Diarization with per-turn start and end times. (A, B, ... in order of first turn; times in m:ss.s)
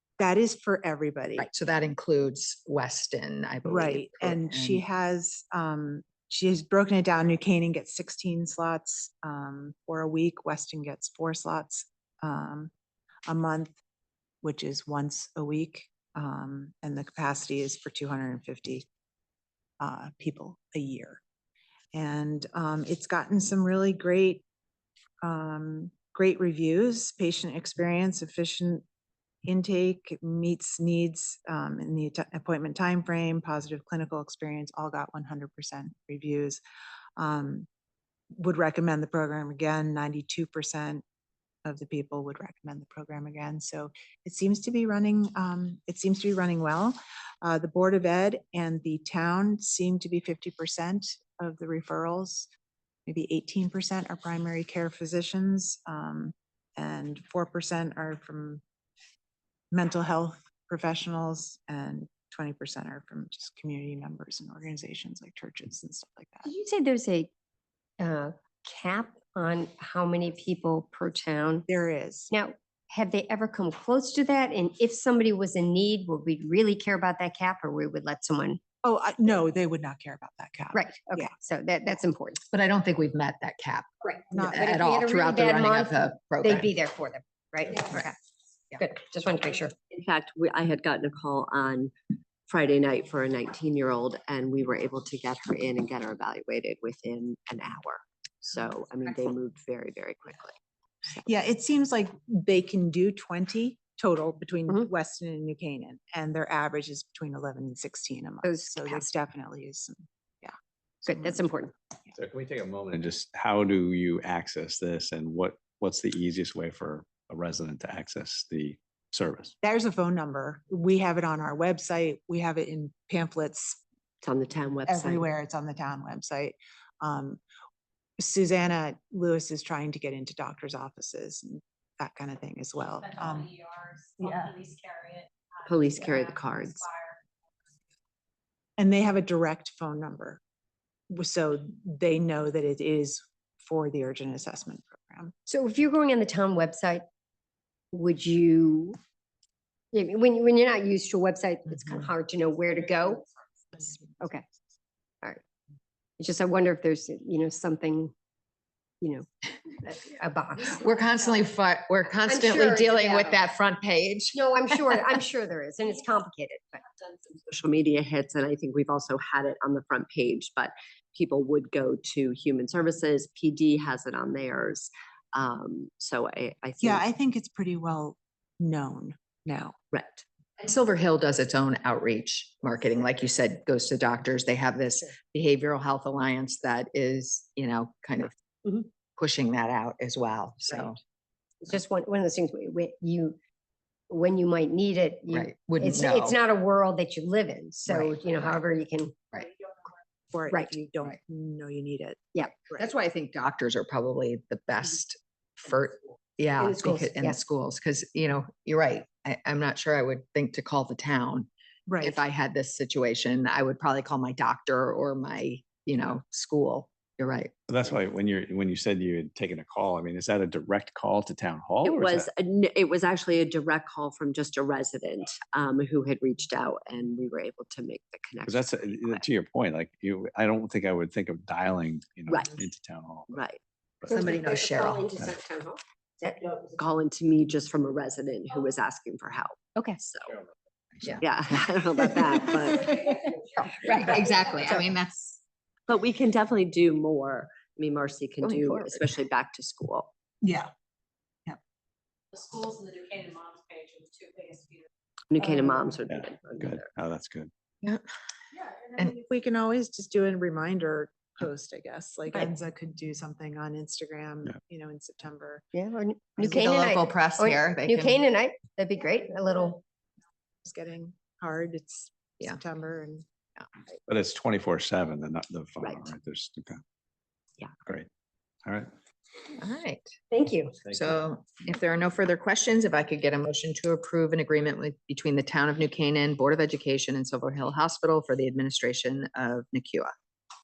0:00.2-0:01.5 A
0:01.4-0:04.8 B
0:03.6-0:12.7 A
0:13.3-0:13.8 A
0:14.4-0:18.9 A
0:19.8-0:21.2 A
0:21.9-0:24.4 A
0:25.2-0:28.8 A
0:29.4-0:36.6 A
0:37.2-0:37.7 A
0:38.3-0:41.0 A
0:41.6-0:52.5 A
0:53.1-0:58.6 A
0:59.7-1:06.5 A
1:06.4-1:07.3 C
1:08.0-1:11.6 C
1:11.7-1:12.3 A
1:12.3-1:18.6 C
1:18.8-1:21.3 A
1:20.7-1:22.4 C
1:22.5-1:26.7 B
1:24.1-1:28.1 C
1:24.3-1:24.7 A
1:28.8-1:29.7 C
1:29.9-1:31.9 D
1:32.5-1:40.5 D
1:41.2-1:51.4 A
1:48.4-1:49.1 C
1:51.0-1:51.7 C
1:52.1-1:59.5 E
1:59.6-2:03.8 A
2:04.2-2:05.2 D
2:04.9-2:07.4 A
2:08.2-2:13.6 A
2:13.5-2:15.3 F
2:14.2-2:14.5 A
2:15.7-2:16.9 D
2:16.4-2:17.2 F
2:18.8-2:20.4 A
2:21.1-2:25.3 A
2:25.4-2:27.0 C
2:27.9-2:29.0 C
2:29.9-2:34.4 C
2:36.2-2:38.1 C
2:39.0-2:39.3 C
2:39.8-2:40.9 C
2:40.6-2:45.0 B
2:42.2-2:43.4 C
2:44.3-2:47.0 C
2:47.2-2:57.0 D
2:56.8-2:59.8 A
2:59.9-3:00.2 D
3:00.6-3:11.0 B
3:11.6-3:13.4 C
3:14.1-3:19.2 C
3:15.3-3:16.4 B
3:17.8-3:18.6 B
3:20.3-3:22.8 A
3:22.3-3:22.6 C
3:22.8-3:31.5 B
3:26.6-3:27.4 C
3:31.9-3:32.2 A
3:32.0-3:37.5 B
3:37.7-3:42.3 E
3:41.8-3:49.3 D
3:48.4-3:53.4 E
3:52.3-3:52.6 D
3:53.3-3:53.6 D
3:54.1-3:56.5 C
3:54.1-3:55.2 B
3:56.6-4:00.4 D
4:01.2-4:03.0 D
4:02.8-4:03.1 B
4:03.8-4:05.4 B
4:05.9-4:10.1 D
4:08.4-4:09.0 B
4:10.4-4:10.7 A
4:12.3-4:14.9 F
4:15.3-4:16.8 D
4:16.1-4:17.5 E
4:19.1-4:25.6 A
4:25.7-4:29.8 C
4:26.4-4:28.2 B
4:30.6-4:33.2 A
4:34.1-4:36.8 E
4:35.8-4:36.1 D
4:38.6-4:38.9 E
4:39.6-4:40.2 B
4:40.3-4:40.8 C
4:40.8-4:50.1 B